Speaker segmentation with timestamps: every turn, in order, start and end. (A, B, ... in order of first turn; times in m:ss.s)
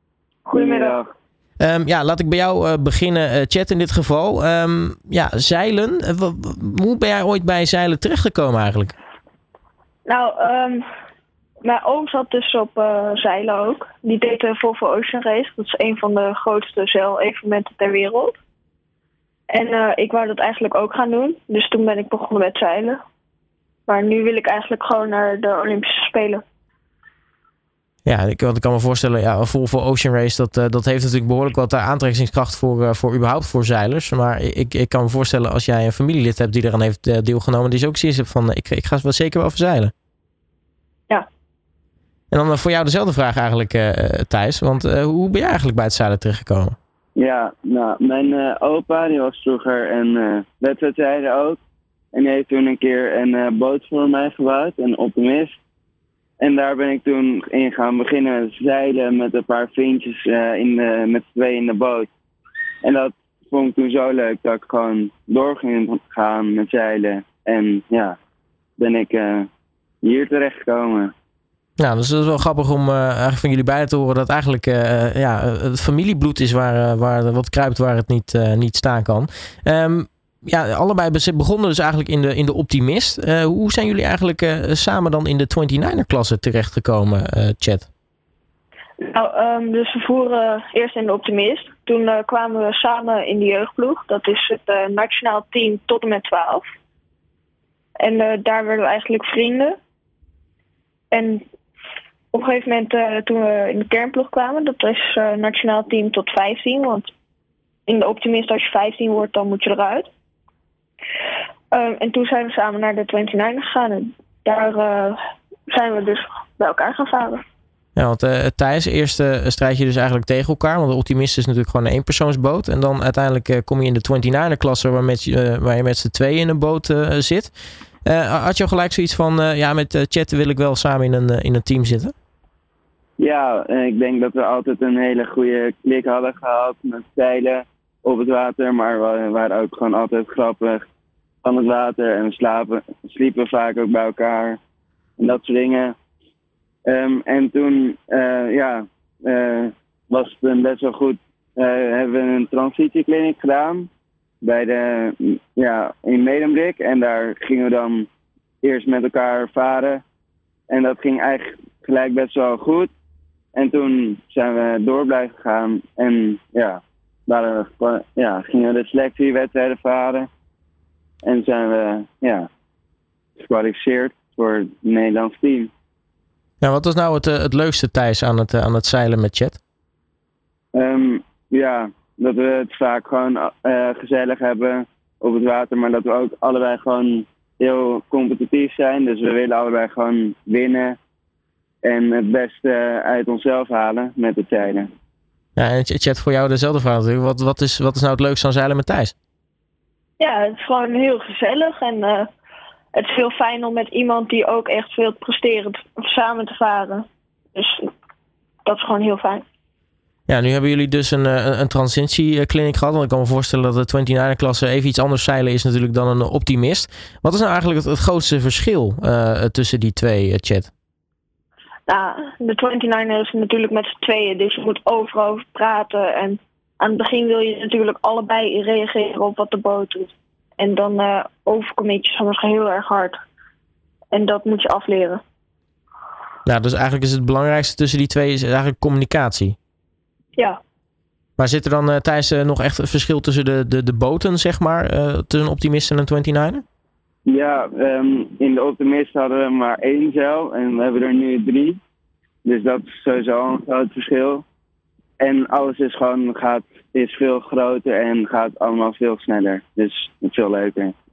0:00.4-0:01.0 A
0:00.5-0:01.0 B
0:01.6-0:08.9 C
0:10.0-0:10.8 A
0:11.6-0:18.3 A
0:19.5-0:23.0 A
0:23.9-0:26.4 A
0:28.0-0:39.9 C
0:42.3-0:46.8 C
0:47.2-0:51.6 B
0:52.1-0:55.6 B
0:56.4-1:02.1 B
1:02.8-1:08.2 B
1:08.8-1:09.5 B
1:10.0-1:11.1 B
1:11.8-1:27.9 C
1:29.0-1:36.6 A
1:38.0-1:39.8 A
1:41.1-1:41.4 A
1:42.3-1:47.1 A
1:47.8-1:50.1 A
1:51.7-1:55.2 A
1:55.7-1:57.4 A
1:58.0-2:07.5 C
2:08.0-2:12.1 C
2:13.2-2:20.8 B
2:21.4-2:24.6 B
2:25.2-2:25.9 B
2:26.9-2:33.9 B
2:34.4-2:38.1 B
2:38.6-2:40.0 B
2:40.7-2:42.9 B
2:43.6-2:50.3 B
2:51.2-2:52.5 B
2:53.4-2:55.7 B
2:56.6-2:59.6 C
3:00.7-3:11.0 B
3:11.8-3:14.9 B
3:15.6-3:19.1 C
3:20.2-3:22.3 A
3:22.9-3:27.9 A
3:28.6-3:29.4 A
3:30.3-3:40.7 C
3:41.9-3:53.2 A
3:54.1-3:55.2 A
3:56.4-3:59.6 C
4:01.4-4:06.6 C
4:07.2-4:11.8 B
4:12.4-4:14.4 B
4:15.2-4:20.9 B